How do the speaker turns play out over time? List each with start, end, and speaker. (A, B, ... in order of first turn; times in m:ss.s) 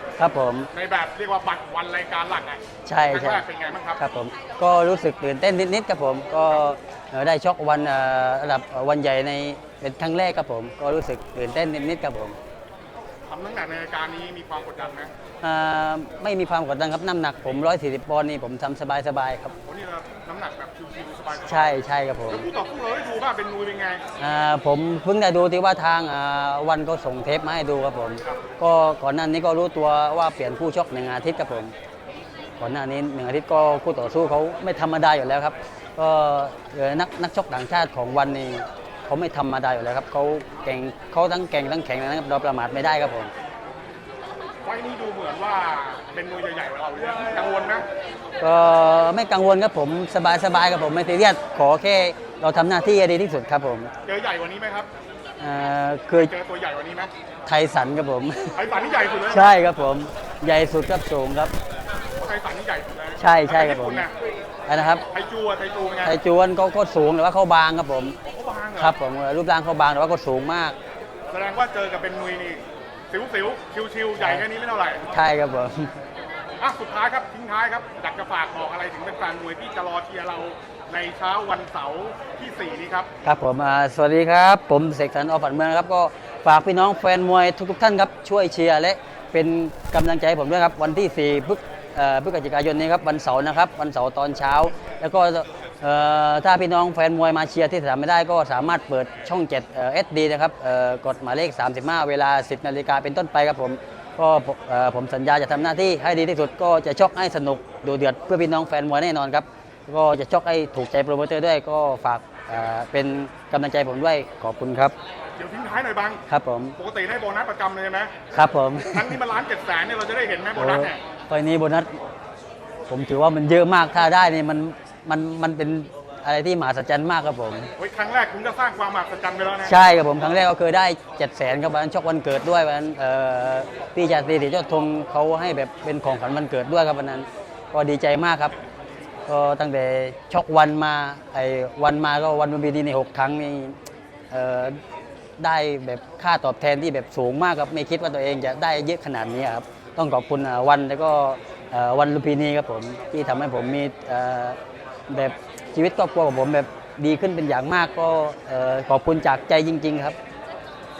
0:00.2-0:00.7 A
0:00.7-0:04.0 B
0:02.9-0:03.4 A
0:04.0-0:12.4 A
0:13.3-0:15.1 B
0:15.4-0:19.6 A
0:19.6-0:24.0 B
0:21.5-0:22.5 A
0:24.2-0:31.7 A
0:32.6-0:43.3 A
0:44.6-0:47.9 B
0:48.4-0:53.9 A
0:54.1-0:54.9 B
0:55.4-0:56.3 A
0:56.1-0:57.1 B
0:57.5-0:58.6 A
0:58.6-0:59.6 B
0:59.3-1:01.5 A
1:02.2-1:04.1 B
1:03.2-1:04.1 A
1:04.7-1:05.0 A
1:05.1-1:06.2 B
1:06.0-1:08.2 A
1:08.2-1:09.0 B
1:08.8-1:10.8 A
1:11.3-1:15.1 B
1:14.2-1:14.4 A
1:15.1-1:15.9 A
1:16.6-1:23.1 B
1:23.2-1:55.0 A
1:55.4-1:56.2 B
1:56.3-1:56.8 A
1:56.8-1:58.2 B
1:58.3-1:59.2 A
1:58.9-2:01.0 B
2:00.6-2:02.0 A
2:02.9-2:07.7 A
2:07.8-2:09.8 B
2:09.6-2:18.5 A
2:19.3-2:23.8 A
2:24.3-2:24.8 A
2:25.4-2:34.6 A
2:35.1-2:40.2 A